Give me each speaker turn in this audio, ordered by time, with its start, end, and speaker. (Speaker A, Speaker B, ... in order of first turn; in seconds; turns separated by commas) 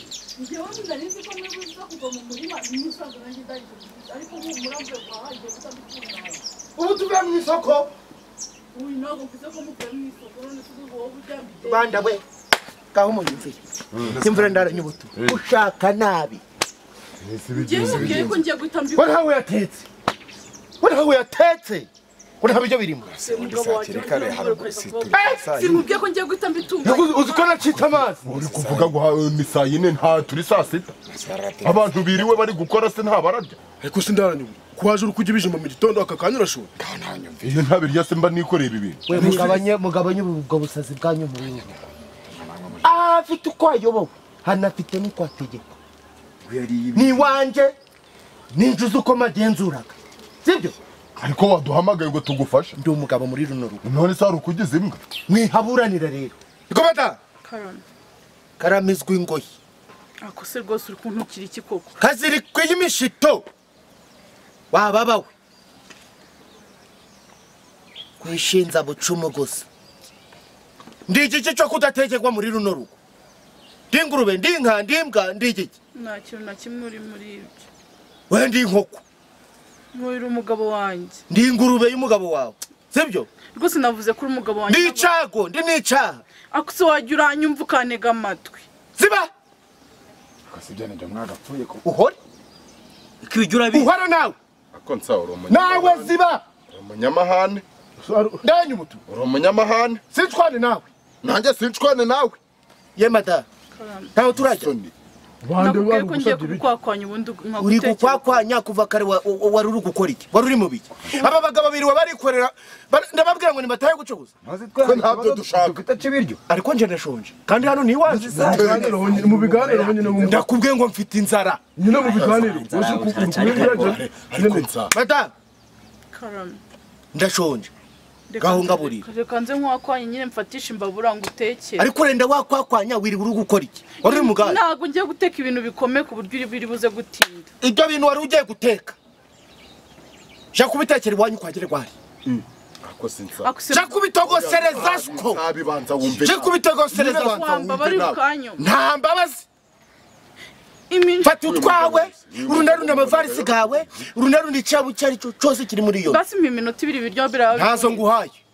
Speaker A: 0.3-6.4, Speaker B: 6.8-7.9, Speaker A: 8.7-12.0, Speaker B: 11.6-12.2, Speaker B: 12.9-16.4, Speaker C: 13.9-15.4, Speaker C: 17.2-18.4, Speaker A: 17.5-19.2, Speaker B: 18.9-19.9, Speaker B: 20.8-21.9, Speaker B: 22.4-23.1, Speaker D: 23.1-25.8, Speaker A: 23.2-27.5, Speaker E: 23.4-23.7, Speaker B: 25.1-25.5, Speaker B: 26.8-28.3, Speaker D: 27.8-28.9, Speaker C: 28.3-30.9, Speaker D: 31.1-32.3, Speaker C: 31.6-33.6, Speaker F: 33.8-36.7, Speaker D: 36.8-37.6, Speaker C: 37.4-39.3, Speaker B: 39.1-41.7, Speaker F: 39.1-39.6, Speaker D: 42.3-42.8, Speaker B: 42.8-45.8, Speaker D: 46.4-47.3, Speaker B: 46.9-47.8, Speaker B: 48.5-50.8, Speaker C: 51.2-52.8, Speaker B: 52.8-53.8, Speaker C: 53.8-55.0, Speaker B: 55.3-57.2, Speaker A: 57.4-57.8, Speaker B: 58.6-59.5, Speaker A: 60.2-61.9, Speaker B: 62.0-63.5, Speaker B: 64.7-65.3, Speaker B: 68.2-69.7, Speaker B: 71.1-73.0, Speaker B: 73.9-75.7, Speaker A: 75.9-77.6, Speaker B: 78.3-79.0, Speaker A: 79.9-81.2, Speaker B: 81.3-83.3, Speaker A: 83.5-85.1, Speaker B: 84.7-86.2, Speaker A: 86.5-88.7, Speaker B: 89.0-89.3, Speaker D: 90.5-91.8, Speaker B: 91.8-92.2, Speaker E: 93.2-93.9, Speaker B: 93.7-94.3, Speaker C: 94.7-96.1, Speaker B: 95.5-96.4, Speaker C: 96.7-97.6, Speaker F: 98.0-98.4, Speaker B: 98.4-99.0, Speaker C: 99.1-100.0, Speaker B: 100.1-100.8, Speaker C: 101.2-102.4, Speaker B: 103.0-103.5, Speaker A: 103.7-104.1, Speaker B: 104.1-104.7, Speaker C: 104.3-104.9, Speaker F: 105.4-106.7, Speaker A: 105.5-108.3, Speaker B: 107.6-114.3, Speaker D: 114.4-116.4, Speaker C: 114.8-115.8, Speaker B: 116.5-118.9, Speaker D: 118.0-120.2, Speaker C: 118.3-119.3, Speaker F: 118.3-120.5, Speaker B: 120.1-121.6, Speaker F: 121.8-124.7, Speaker E: 121.8-124.0, Speaker C: 122.2-122.5, Speaker C: 123.3-124.9, Speaker B: 124.9-125.3, Speaker A: 126.1-126.6, Speaker B: 127.1-127.7, Speaker A: 128.3-131.9, Speaker B: 128.4-129.1, Speaker B: 131.8-134.6, Speaker A: 134.0-137.5, Speaker B: 137.6-138.9, Speaker B: 140.5-141.9, Speaker C: 142.2-143.6, Speaker A: 143.4-144.0, Speaker B: 143.7-145.4, Speaker C: 144.2-146.6, Speaker B: 146.1-149.4, Speaker A: 146.9-148.6, Speaker A: 150.9-151.4, Speaker B: 151.2-156.2, Speaker C: 151.4-153.8, Speaker A: 156.0-158.0, Speaker B: 157.5-158.3